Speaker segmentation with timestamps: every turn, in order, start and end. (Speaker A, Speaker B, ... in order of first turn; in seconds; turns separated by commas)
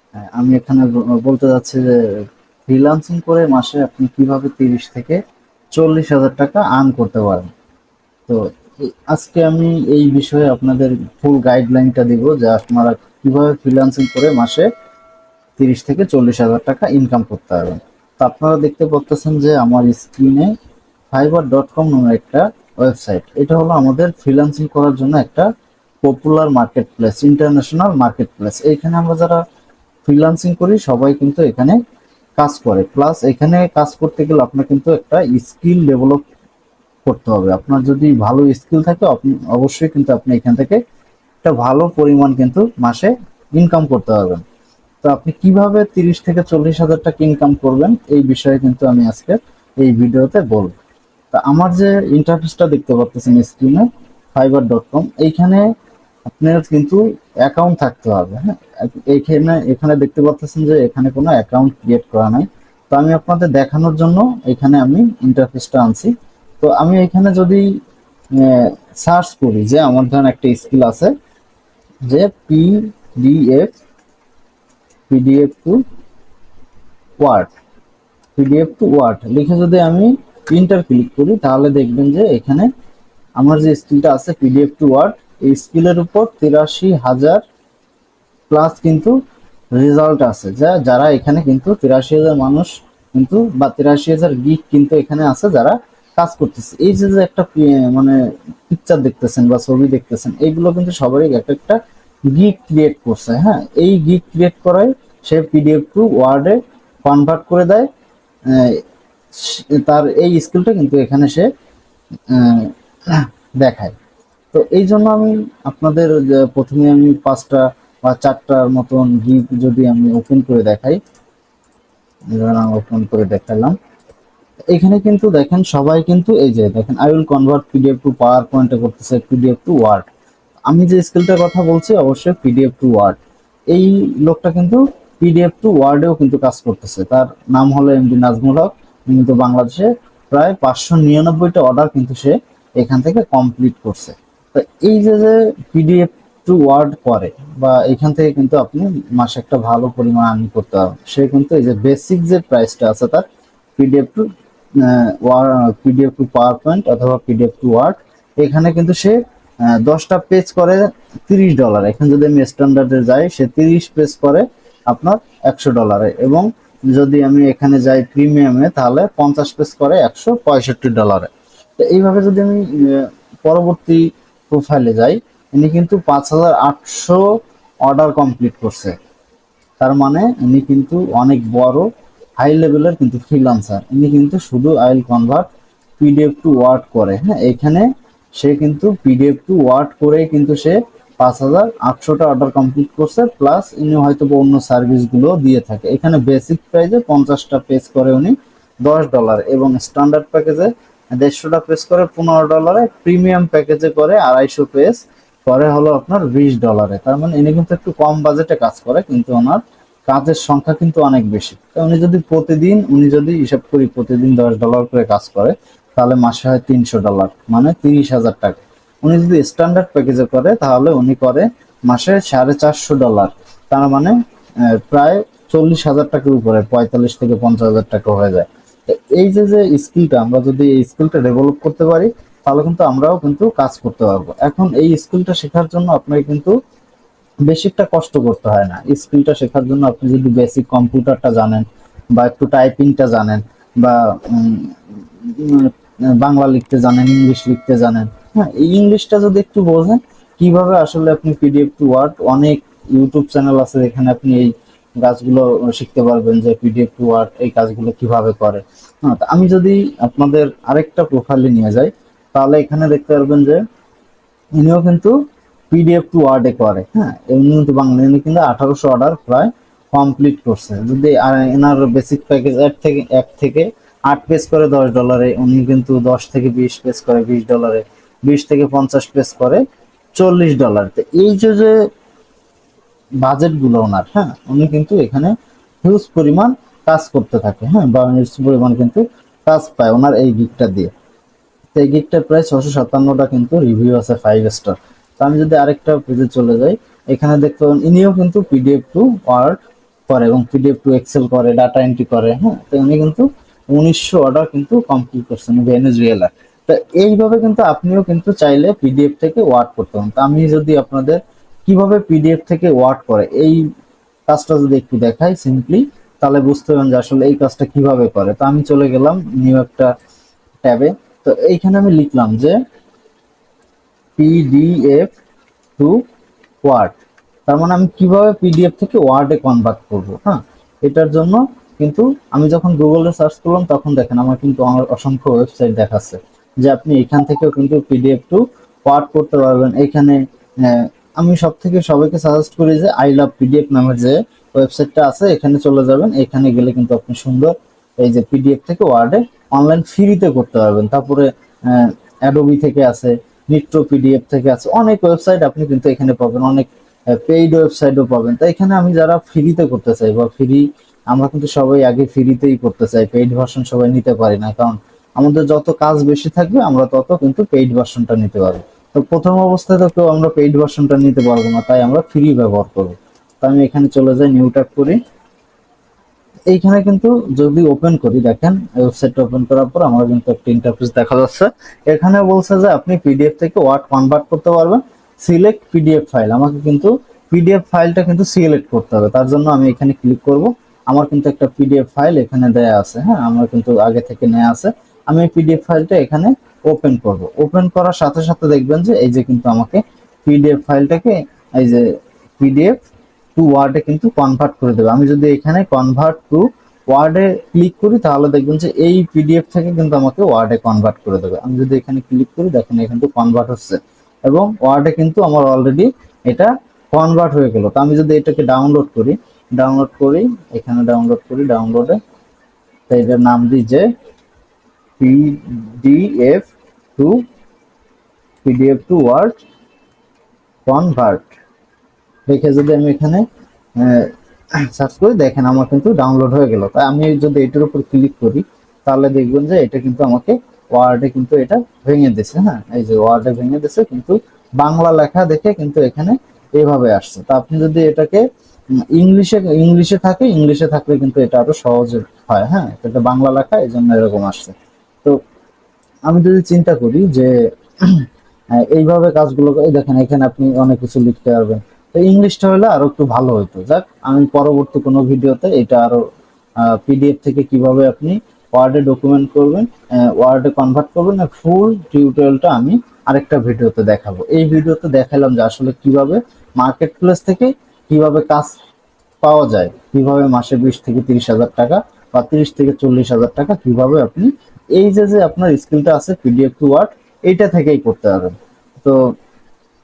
Speaker A: 0.3-5.2, Speaker A: 5.7-7.5, Speaker A: 8.3-14.7, Speaker A: 15.6-20.5, Speaker A: 21.1-25.5, Speaker A: 26.0-29.4, Speaker A: 30.0-31.8, Speaker A: 32.4-36.2, Speaker A: 37.0-40.8, Speaker A: 41.4-44.4, Speaker A: 45.0-50.7, Speaker A: 51.3-55.6, Speaker A: 56.3-67.6, Speaker A: 68.4-71.1, Speaker A: 72.1-73.7, Speaker A: 75.1-75.8, Speaker A: 77.2-77.5, Speaker A: 78.3-82.7, Speaker A: 83.4-87.4, Speaker A: 88.5-89.1, Speaker A: 89.8-98.2, Speaker A: 98.7-101.8, Speaker A: 102.3-107.9, Speaker A: 108.5-108.8, Speaker A: 109.3-111.5, Speaker A: 112.3-113.9, Speaker A: 114.5-121.0, Speaker A: 122.3-123.7, Speaker A: 124.7-130.1, Speaker A: 130.7-133.2, Speaker A: 133.7-153.2, Speaker A: 153.8-154.2, Speaker A: 154.8-177.2, Speaker A: 177.8-178.9, Speaker A: 179.8-185.4, Speaker A: 186.0-236.5, Speaker A: 237.5-263.6, Speaker A: 264.6-265.1, Speaker A: 265.7-279.6, Speaker A: 280.2-281.7, Speaker A: 283.2-285.3, Speaker A: 285.8-290.9, Speaker A: 291.7-313.6, Speaker A: 314.3-319.9, Speaker A: 320.6-322.6, Speaker A: 324.2-325.1, Speaker A: 325.8-326.0, Speaker A: 326.6-375.0, Speaker A: 376.5-401.8, Speaker A: 402.4-402.8, Speaker A: 403.4-422.0, Speaker A: 422.9-423.9, Speaker A: 425.0-427.2, Speaker A: 428.4-429.4, Speaker A: 430.6-431.3, Speaker A: 432.3-433.2, Speaker A: 433.8-434.1, Speaker A: 434.7-448.2, Speaker A: 448.9-455.1, Speaker A: 456.1-458.1, Speaker A: 458.6-466.0, Speaker A: 466.6-478.5, Speaker A: 479.2-489.0